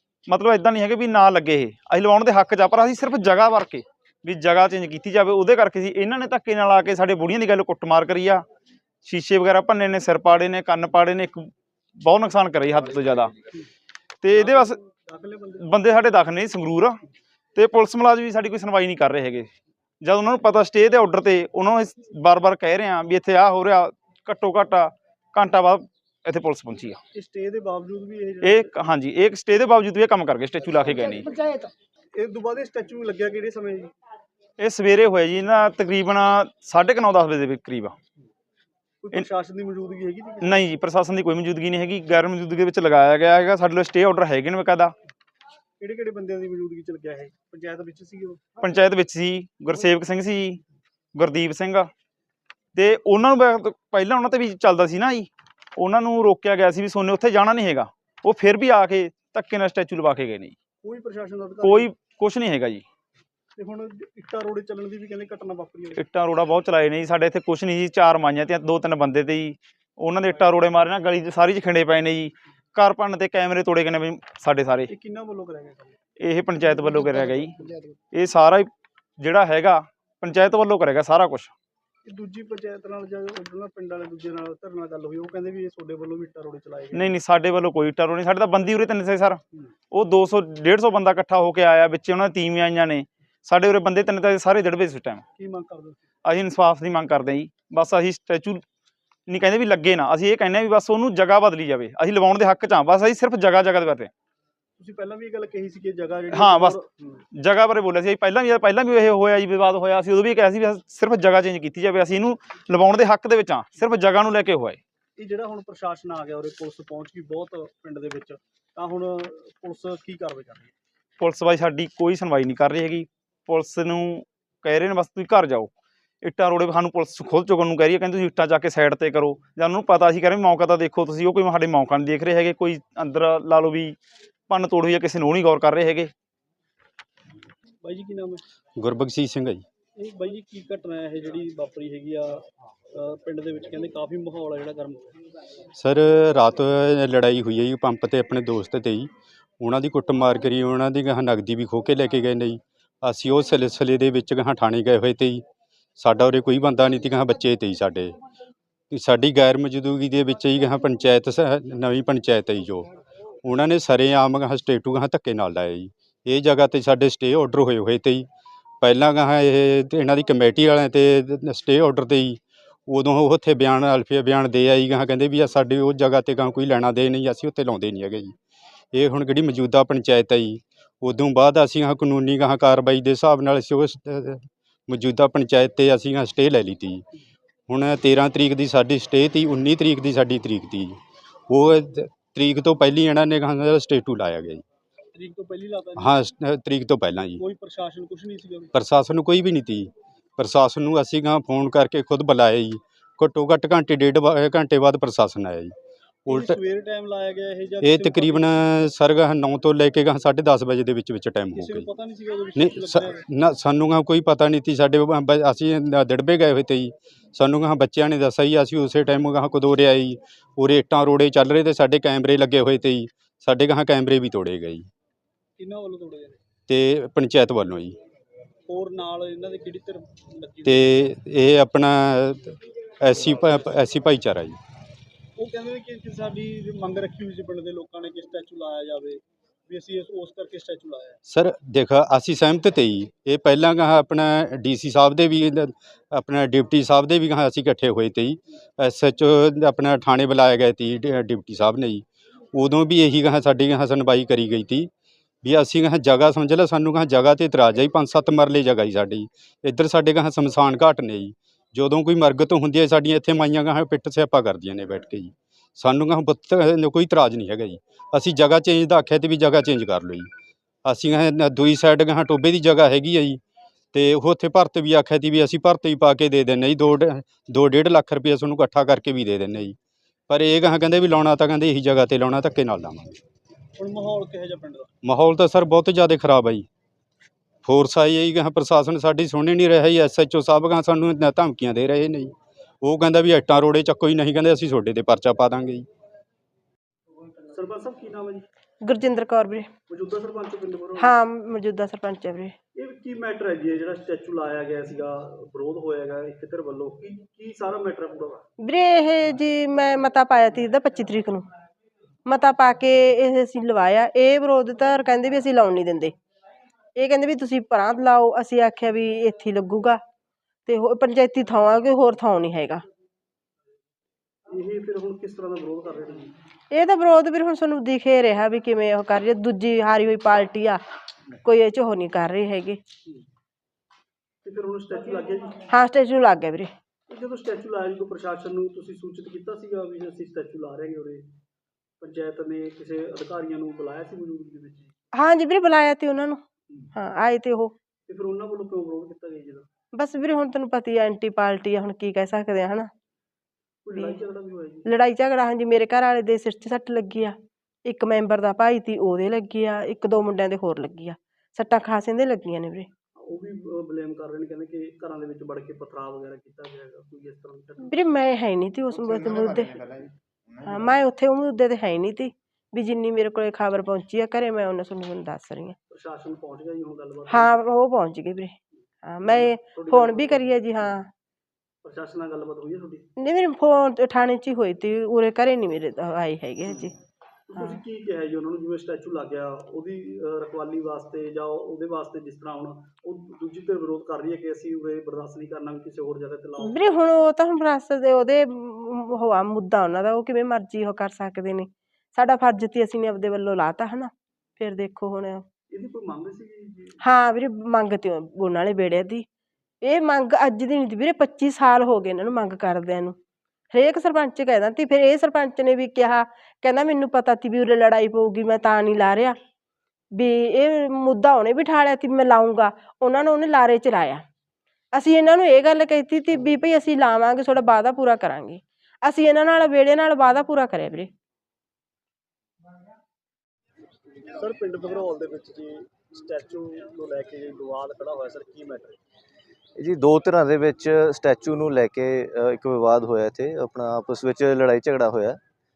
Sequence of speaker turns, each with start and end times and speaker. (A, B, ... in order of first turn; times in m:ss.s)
0:00.3-0:08.4 A
0:09.0-0:11.4 A
0:12.0-0:13.3 A
0:14.2-0:14.8 A
0:14.3-0:15.6 B
0:15.6-0:17.0 A
0:17.6-0:19.5 A
0:20.0-0:27.0 A
0:27.1-0:28.7 B
0:28.4-0:31.3 A
0:32.1-0:33.9 B
0:34.6-0:37.9 A
0:39.0-0:40.6 B
0:40.4-0:44.9 A
0:45.8-0:48.6 B
0:48.6-0:50.6 A
0:51.2-0:51.9 A
0:52.8-1:00.6 A
1:00.8-1:01.9 B
1:01.6-1:02.8 A
1:03.6-1:06.0 B
1:06.0-1:14.9 A
1:14.9-1:16.0 B
1:16.2-1:17.6 A
1:17.0-1:17.4 B
1:18.1-1:18.7 A
1:19.2-1:21.5 A
1:22.0-1:27.2 B
1:26.9-1:29.4 A
1:29.9-1:35.2 A
1:35.4-1:36.0 B
1:36.2-1:38.6 A
1:39.3-1:44.1 A
1:44.8-1:47.2 B
1:46.3-1:46.8 A
1:47.4-1:54.8 A
1:55.2-2:00.7 B
2:01.2-2:14.0 A
2:14.5-2:16.1 A
2:17.8-2:18.4 B
2:18.8-2:19.6 C
2:20.0-2:22.4 B
2:22.9-2:25.2 B
2:25.8-2:29.1 C
2:29.6-2:35.4 C
2:36.0-2:38.1 C
2:38.9-2:42.9 C
2:43.4-2:48.2 C
2:48.8-2:58.3 C
2:58.9-3:07.0 C
3:07.7-3:10.9 C
3:11.5-3:14.6 C
3:15.1-3:16.2 B
3:16.0-3:17.4 C
3:17.4-3:18.7 B
3:18.7-3:25.7 C
3:26.3-3:26.6 C
3:26.3-3:28.5 B
3:27.8-3:31.9 C
3:31.5-3:33.2 B
3:32.6-3:44.9 C
3:45.6-3:46.4 B
3:46.7-3:48.0 C
3:48.7-3:50.9 B
3:50.6-3:54.6 C
3:55.4-4:01.2 B
4:01.3-4:14.9 C
4:15.4-4:30.3 C
4:30.8-4:33.4 C
4:33.9-4:39.7 C
4:40.3-4:43.2 C
4:43.8-4:44.9 B
4:45.0-4:46.6 C
4:47.6-4:55.8 C
4:57.5-4:58.4 B
4:58.8-4:59.7 D
4:59.9-5:01.2 B
5:01.0-5:02.5 D
5:02.8-5:08.4 B
5:08.6-5:11.4 D
5:12.2-5:16.1 D
5:17.0-5:20.0 D
5:20.6-5:22.8 D
5:24.5-5:26.3 B
5:26.7-5:30.8 D
5:31.4-5:32.8 D
5:34.4-5:35.6 B
5:35.7-5:36.7 D
5:37.1-5:41.3 B
5:42.0-5:44.9 B
5:45.1-5:46.4 D
5:46.9-5:47.7 D
5:48.1-5:49.6 B
5:49.9-5:52.9 D
5:53.8-5:54.9 B
5:53.9-5:54.2 D
5:54.8-6:02.9 D
6:03.2-6:08.0 B
6:07.8-6:09.8 D
6:08.9-6:10.1 B
6:10.6-6:15.8 D
6:15.9-6:17.5 B
6:17.3-6:21.1 D
6:19.2-6:20.5 B
6:21.8-6:23.0 B
6:23.2-6:26.9 D
6:27.5-6:36.9 B
6:36.6-6:45.4 D
6:45.7-6:47.0 B
6:47.0-6:49.2 D
6:49.8-6:53.2 D
6:53.7-6:59.4 D
7:00.1-7:04.2 D
7:04.9-7:11.1 D
7:14.4-7:19.0 B
7:19.8-7:25.4 E